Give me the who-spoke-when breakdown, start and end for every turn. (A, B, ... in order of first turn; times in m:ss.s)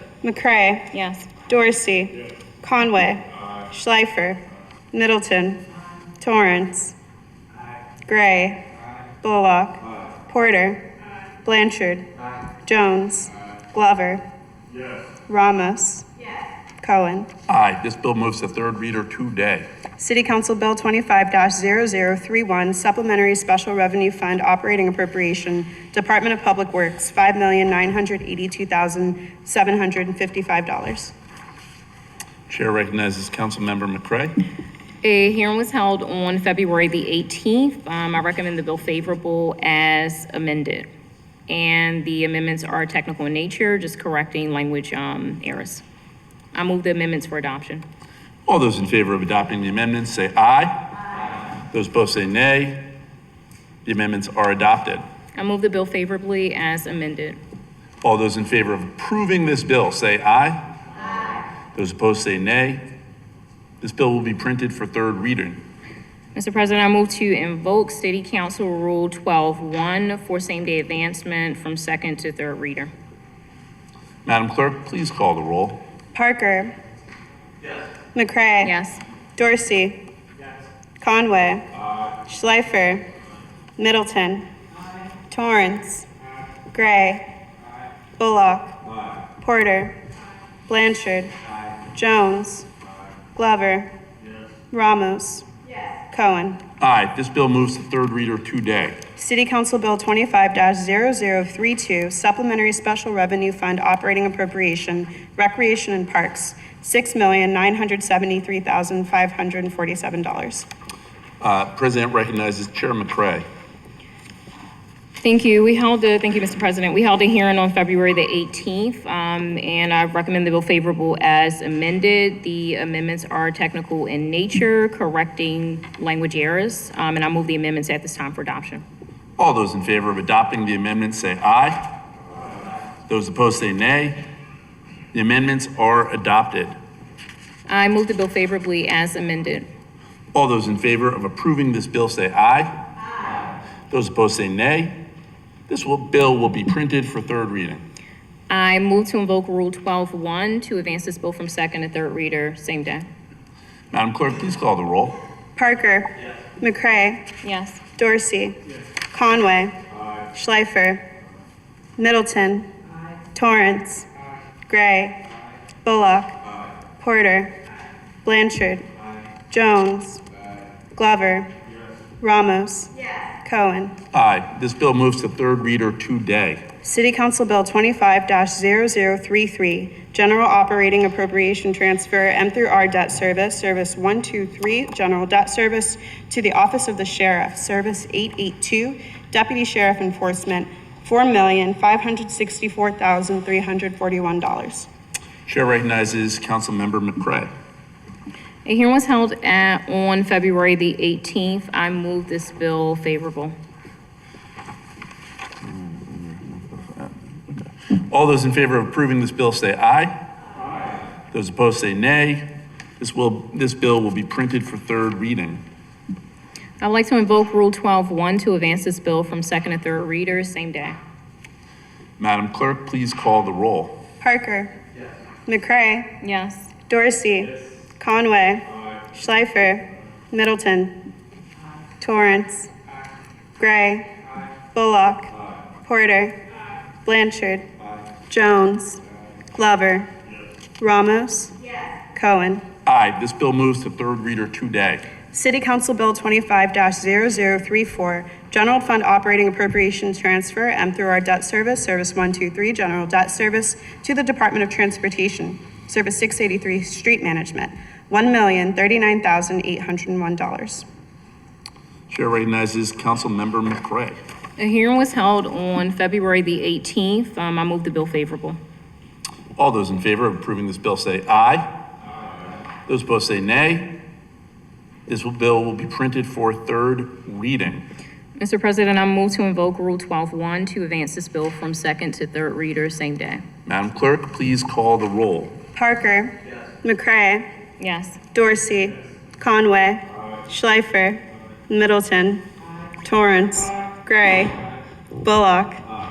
0:00.2-0:00.9 A
0:00.9-0:01.2 B
0:01.5-0:04.4 A
0:04.9-0:05.6 A
0:06.2-0:06.9 A
0:08.1-0:08.6 A
0:09.2-0:10.9 A
0:11.4-0:12.0 A
0:12.7-0:14.2 A
0:15.3-0:16.1 A
0:16.8-0:17.3 A
0:17.5-0:19.7 C
0:20.0-0:31.1 A
0:32.5-0:34.4 C
0:35.0-0:40.9 B
0:41.5-0:45.8 B
0:46.5-0:47.8 B
0:48.4-0:50.9 C
0:51.7-0:52.8 C
0:53.8-0:55.0 C
0:55.4-0:57.4 B
0:58.0-1:00.7 C
1:01.7-1:02.8 C
1:03.8-1:05.6 C
1:06.4-1:12.9 B
1:14.2-1:15.8 C
1:16.2-1:16.7 A
1:18.1-1:18.7 A
1:18.6-1:19.0 B
1:19.4-1:20.0 A
1:21.0-1:21.7 A
1:22.3-1:23.0 A
1:23.8-1:24.5 A
1:25.3-1:26.1 A
1:26.7-1:27.3 A
1:28.2-1:28.8 A
1:29.4-1:30.0 A
1:30.7-1:31.3 A
1:31.9-1:32.7 A
1:33.4-1:33.9 A
1:34.7-1:35.5 A
1:36.1-1:36.6 A
1:36.8-1:39.0 C
1:39.2-1:50.7 A
1:51.4-1:53.4 C
1:55.2-2:08.8 B
2:09.4-2:11.9 C
2:13.1-2:14.2 C
2:15.1-2:16.8 C
2:17.7-2:19.7 B
2:20.3-2:22.7 C
2:23.9-2:25.0 C
2:25.7-2:27.8 C
2:28.5-2:33.1 B
2:33.9-2:35.2 C
2:35.6-2:37.3 A
2:37.4-2:37.8 B
2:38.0-2:38.6 A
2:39.1-2:39.8 A
2:40.3-2:41.0 A
2:42.0-2:42.7 A
2:43.3-2:44.0 A
2:44.7-2:45.2 A
2:45.8-2:46.4 A
2:47.0-2:47.6 A
2:48.2-2:48.8 A
2:49.5-2:50.2 A
2:51.0-2:51.5 A
2:52.2-2:53.9 A
2:54.1-2:56.6 C
2:56.8-3:14.9 A
3:15.4-3:17.5 C
3:18.7-3:23.5 B
3:25.7-3:30.2 C
3:31.3-3:35.6 C
3:36.8-3:41.0 B
3:42.2-3:44.0 C
3:44.2-3:44.7 A
3:45.4-3:46.2 A
3:46.2-3:46.7 B
3:46.9-3:51.0 A
3:52.0-3:52.7 A
3:53.6-3:54.1 A
3:54.7-3:55.3 A
3:55.8-3:56.4 A
3:57.0-3:57.7 A
3:58.3-3:59.0 A
3:59.5-4:00.1 A
4:00.8-4:01.6 A
4:02.1-4:02.6 A
4:02.8-4:05.1 C
4:05.3-4:20.8 A
4:22.1-4:24.2 C
4:24.6-4:28.6 B
4:29.6-4:31.7 C
4:32.9-4:34.0 C
4:35.1-4:37.8 C
4:38.4-4:43.4 B
4:43.7-4:45.6 C
4:45.8-4:47.5 A
4:47.8-4:48.2 B
4:48.3-4:52.4 A
4:53.0-4:54.6 A
4:55.2-4:55.8 A